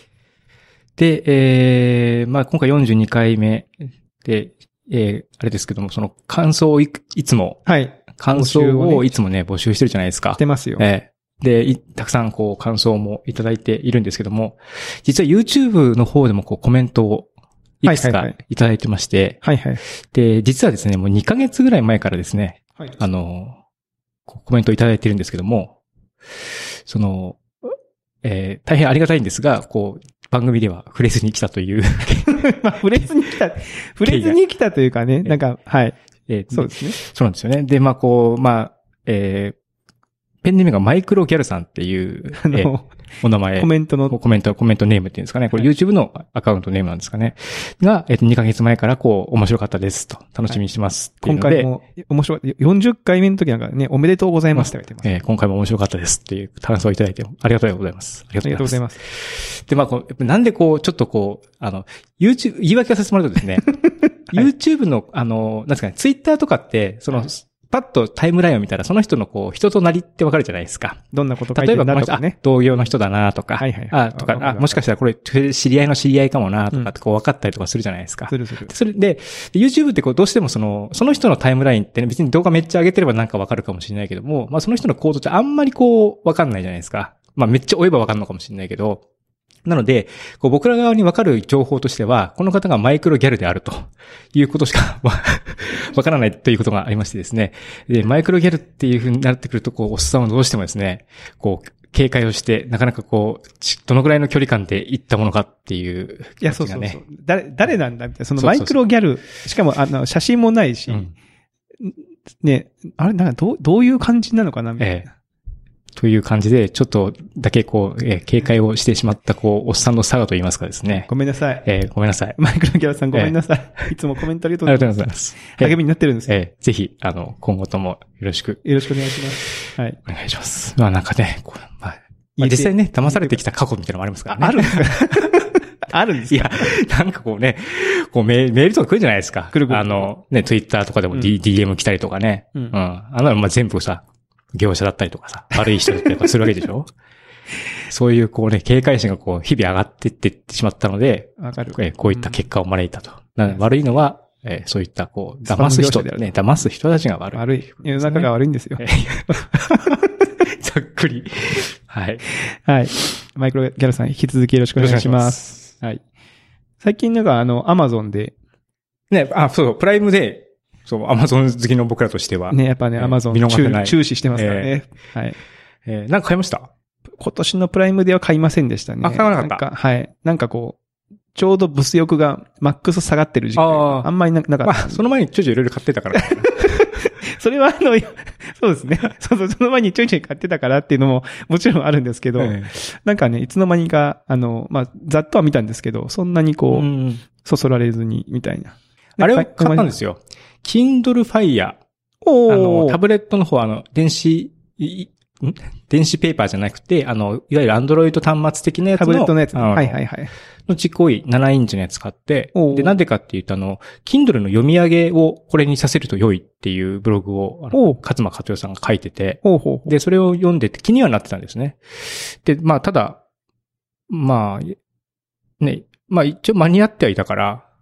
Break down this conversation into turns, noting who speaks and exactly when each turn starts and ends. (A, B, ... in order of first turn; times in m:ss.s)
0:01.0-0:07.6 A
0:07.6-0:09.1 B
0:08.2-0:17.3 A
0:10.4-0:10.8 B
0:17.8-0:19.4 A
0:17.8-0:18.4 B
0:19.4-0:19.8 B
0:20.0-0:23.6 A
0:24.3-0:25.7 A
0:26.8-0:27.7 A
0:28.2-0:33.1 A
0:32.3-0:36.0 B
0:34.0-0:34.4 A
0:36.3-0:39.6 A
0:36.5-0:37.0 B
0:40.4-0:42.7 A
0:42.4-0:42.9 B
0:43.2-0:51.7 A
0:43.6-0:44.2 B
0:51.2-0:55.2 B
0:54.5-1:03.7 A
0:58.4-0:59.0 B
1:04.3-1:11.0 A
1:11.1-1:12.4 B
1:11.5-1:29.0 A
1:13.6-1:14.8 B
1:18.3-1:18.7 B
1:29.6-1:47.0 A
1:46.4-1:51.1 B
1:48.4-1:48.7 A
1:51.8-1:55.1 B
1:54.8-1:55.1 A
1:56.0-2:01.1 A
2:00.9-2:01.6 B
2:01.6-2:02.4 A
2:02.4-2:06.4 B
2:04.6-2:08.6 A
2:08.6-2:10.0 B
2:10.0-2:15.4 A
2:12.4-2:13.4 B
2:14.3-2:16.7 B
2:16.3-2:26.9 A
2:19.5-2:20.1 B
2:27.9-2:42.2 A
2:31.4-2:32.4 B
2:35.5-2:36.3 B
2:37.3-2:40.2 B
2:42.6-2:46.0 B
2:44.8-2:45.7 A
2:46.8-2:48.3 B
2:49.1-2:54.7 A
2:52.5-2:55.4 B
2:55.8-2:56.7 A
2:57.2-3:00.8 B
2:59.0-2:59.6 A
3:01.3-3:05.0 B
3:03.6-3:04.1 A
3:04.6-3:06.8 A
3:06.1-3:19.9 B
3:12.4-3:12.7 A
3:16.7-3:17.2 A
3:19.2-3:21.8 A
3:22.2-3:23.0 B
3:22.5-3:30.0 A
3:28.9-3:30.3 B
3:30.7-3:43.2 A
3:32.5-3:32.9 B
3:37.7-3:38.0 B
3:39.4-3:39.9 B
3:44.1-3:44.8 A
3:45.6-3:47.6 A